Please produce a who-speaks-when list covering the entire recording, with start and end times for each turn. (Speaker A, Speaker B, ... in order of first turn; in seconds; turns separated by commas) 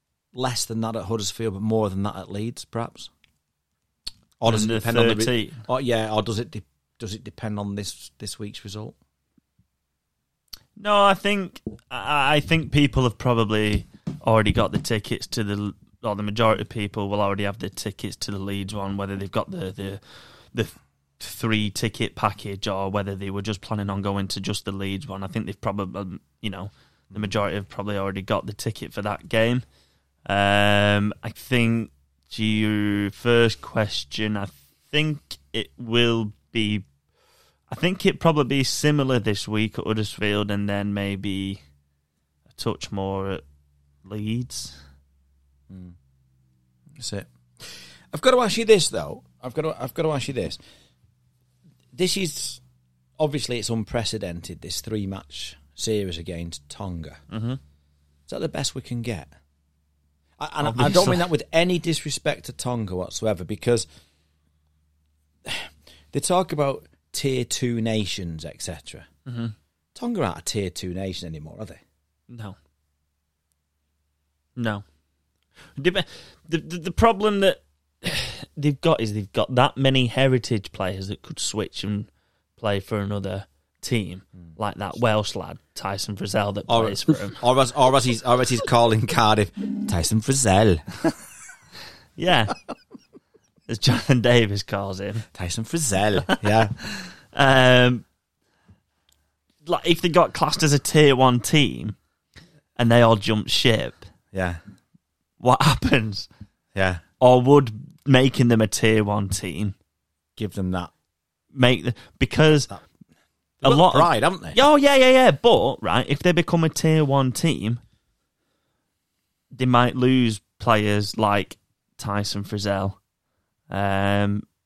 Speaker A: 0.3-3.1, Speaker A: 4.4-8.9, Speaker B: 4.5-5.6, Speaker B: 10.8-20.0, Speaker B: 20.5-29.6, Speaker B: 30.2-36.8, Speaker B: 37.7-41.6, Speaker B: 42.5-43.4, Speaker B: 44.0-44.8, Speaker A: 45.7-45.9, Speaker A: 46.9-50.6, Speaker A: 51.9-52.6, Speaker A: 53.2-57.2, Speaker B: 57.3-57.6, Speaker A: 58.3-59.3, Speaker A: 60.4-63.9, Speaker B: 60.6-61.3, Speaker A: 65.4-69.1, Speaker B: 69.2-69.5, Speaker A: 69.9-71.8, Speaker B: 72.3-72.5, Speaker B: 74.5-74.8, Speaker B: 75.8-87.4, Speaker A: 86.7-91.0, Speaker B: 92.2-92.5, Speaker B: 93.7-95.2, Speaker A: 95.3-96.7, Speaker B: 96.3-98.0, Speaker B: 99.6-102.0, Speaker B: 102.8-104.0, Speaker A: 104.3-104.6, Speaker B: 105.4-106.3, Speaker A: 106.7-107.0, Speaker B: 107.2-109.7, Speaker A: 110.4-110.9, Speaker B: 111.5-112.7, Speaker A: 113.6-114.6, Speaker B: 113.6-117.8, Speaker B: 119.5-123.0, Speaker B: 123.7-124.4